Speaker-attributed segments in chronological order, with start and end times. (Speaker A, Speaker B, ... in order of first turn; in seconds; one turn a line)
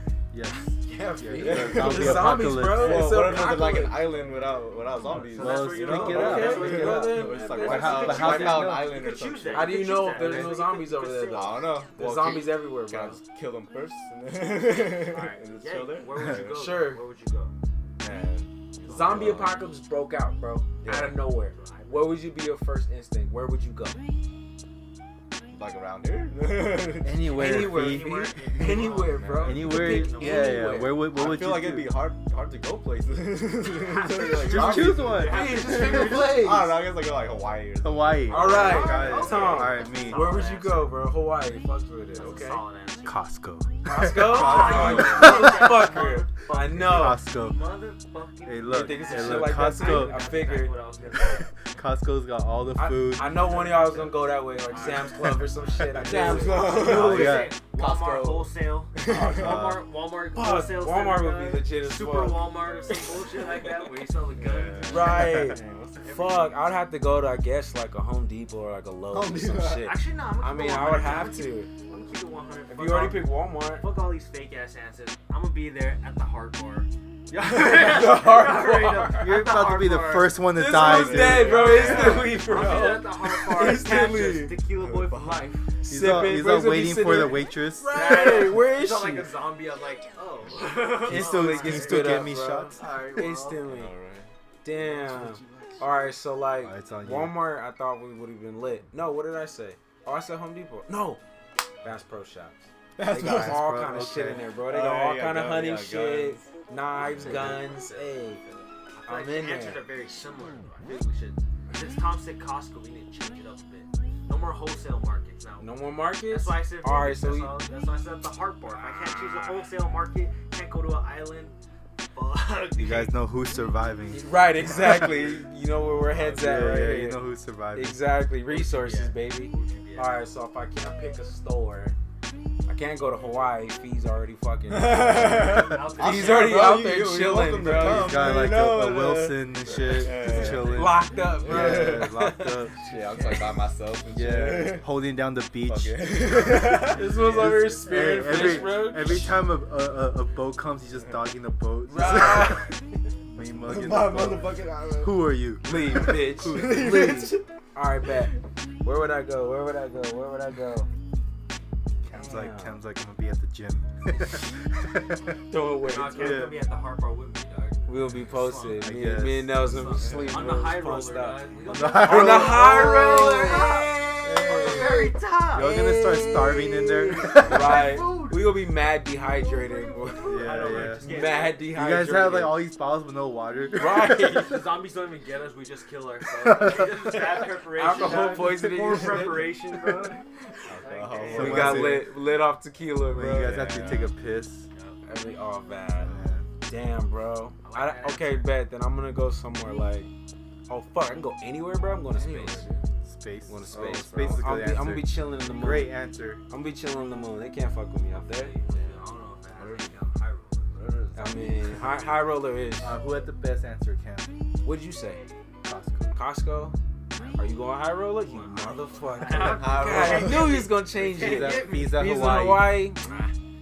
Speaker A: 0.3-3.2
Speaker B: 0.8-4.1
Speaker C: 1.3-9.8
Speaker D: 5.0-11.8
Speaker A: 5.3-8.9
Speaker B: 5.9-8.7
Speaker B: 9.5-13.2
Speaker A: 10.1-10.5
Speaker C: 11.2-16.4
Speaker D: 14.7-17.5
Speaker B: 16.3-17.0
Speaker C: 18.0-19.6
Speaker B: 18.9-24.0
Speaker D: 18.9-19.3
Speaker C: 20.8-21.3
Speaker D: 21.5-22.2
Speaker C: 25.5-27.5
Speaker A: 27.0-28.1
Speaker B: 27.3-31.0
Speaker D: 27.5-30.8
Speaker C: 28.5-29.7
Speaker A: 29.4-32.0
Speaker C: 31.0-39.6
Speaker D: 33.6-36.5
Speaker B: 34.4-36.7
Speaker A: 34.4-36.2
Speaker A: 37.8-40.3
Speaker B: 38.3-42.6
Speaker D: 38.3-41.0
Speaker D: 42.1-43.2
Speaker A: 43.0-44.5
Speaker B: 43.8-47.2
Speaker D: 44.1-51.5
Speaker C: 44.2-45.5
Speaker A: 46.8-47.6
Speaker A: 48.5-50.2
Speaker B: 48.7-50.8
Speaker A: 51.7-53.4
Speaker B: 52.8-57.5
Speaker D: 54.6-65.4
Speaker C: 55.9-59.8
Speaker A: 56.7-57.5
Speaker B: 59.0-59.7
Speaker B: 60.3-63.9
Speaker C: 64.3-66.2
Speaker B: 64.9-71.7
Speaker D: 66.0-66.6
Speaker C: 69.1-69.9
Speaker D: 69.8-80.3
Speaker B: 72.7-73.8
Speaker B: 77.5-79.4
Speaker A: 79.1-81.7
Speaker B: 80.5-84.5
Speaker C: 80.7-82.9
Speaker D: 81.2-85.7
Speaker C: 84.7-85.5
Speaker A: 85.9-88.0
Speaker B: 85.9-89.3
Speaker D: 87.9-93.6
Speaker A: 91.0-92.8
Speaker B: 91.0-93.9
Speaker C: 92.8-96.2
Speaker B: 94.6-101.2
Speaker A: 96.6-97.4
Speaker B: 101.8-108.4
Speaker C: 103.0-103.7
Speaker A: 103.1-104.4
Speaker C: 104.7-108.6
Speaker D: 107.2-107.8
Speaker D: 108.4-115.7
Speaker B: 109.1-109.8
Speaker B: 115.6-117.5
Speaker D: 116.2-121.5
Speaker D: 122.1-123.1
Speaker A: 122.8-124.9
Speaker B: 124.1-127.2
Speaker C: 124.6-126.5
Speaker A: 126.4-128.0
Speaker B: 127.7-131.9
Speaker D: 128.5-130.2
Speaker B: 132.7-138.2
Speaker C: 134.7-142.2
Speaker D: 135.5-136.8
Speaker A: 137.7-142.8
Speaker D: 140.2-140.8
Speaker B: 140.6-142.7
Speaker C: 142.8-144.9
Speaker D: 143.0-143.7
Speaker A: 144.1-152.7
Speaker C: 145.7-147.5
Speaker B: 146.8-149.3
Speaker B: 151.9-152.7
Speaker A: 153.2-157.2
Speaker C: 153.5-157.4
Speaker B: 155.6-160.9
Speaker A: 162.0-165.3
Speaker B: 162.1-162.8
Speaker D: 164.1-164.4
Speaker B: 165.5-166.5
Speaker D: 165.8-168.9
Speaker A: 166.2-166.6
Speaker B: 167.9-174.9
Speaker A: 168.7-169.6
Speaker D: 169.6-178.7
Speaker C: 169.9-170.6
Speaker A: 171.7-172.9
Speaker C: 174.2-175.1
Speaker A: 175.5-177.8
Speaker B: 175.6-176.7
Speaker B: 177.3-182.7
Speaker D: 179.3-181.7
Speaker A: 180.2-184.3
Speaker B: 183.7-184.6
Speaker D: 184.3-191.9
Speaker A: 186.4-186.9
Speaker B: 187.7-189.5
Speaker C: 188.0-189.5
Speaker A: 189.8-190.1
Speaker C: 190.6-192.0
Speaker A: 191.3-192.1
Speaker B: 191.3-193.6
Speaker A: 193.1-194.7
Speaker C: 193.1-194.1
Speaker D: 194.7-195.0
Speaker B: 195.0-196.1
Speaker C: 196.0-196.4
Speaker A: 196.1-196.4
Speaker B: 196.6-200.1
Speaker D: 197.6-198.5
Speaker B: 200.7-202.7
Speaker C: 202.1-202.8
Speaker A: 203.0-206.4
Speaker B: 203.5-206.0
Speaker C: 203.7-204.6
Speaker B: 206.5-208.5
Speaker D: 208.1-210.7
Speaker C: 208.7-210.0
Speaker C: 210.7-212.1
Speaker B: 211.1-213.0
Speaker A: 212.8-214.3
Speaker B: 214.6-215.2
Speaker A: 215.6-216.2
Speaker B: 216.1-216.8
Speaker D: 217.1-217.6
Speaker B: 217.4-223.1
Speaker D: 218.3-222.0
Speaker C: 219.4-220.6
Speaker A: 221.1-222.8
Speaker D: 223.0-223.3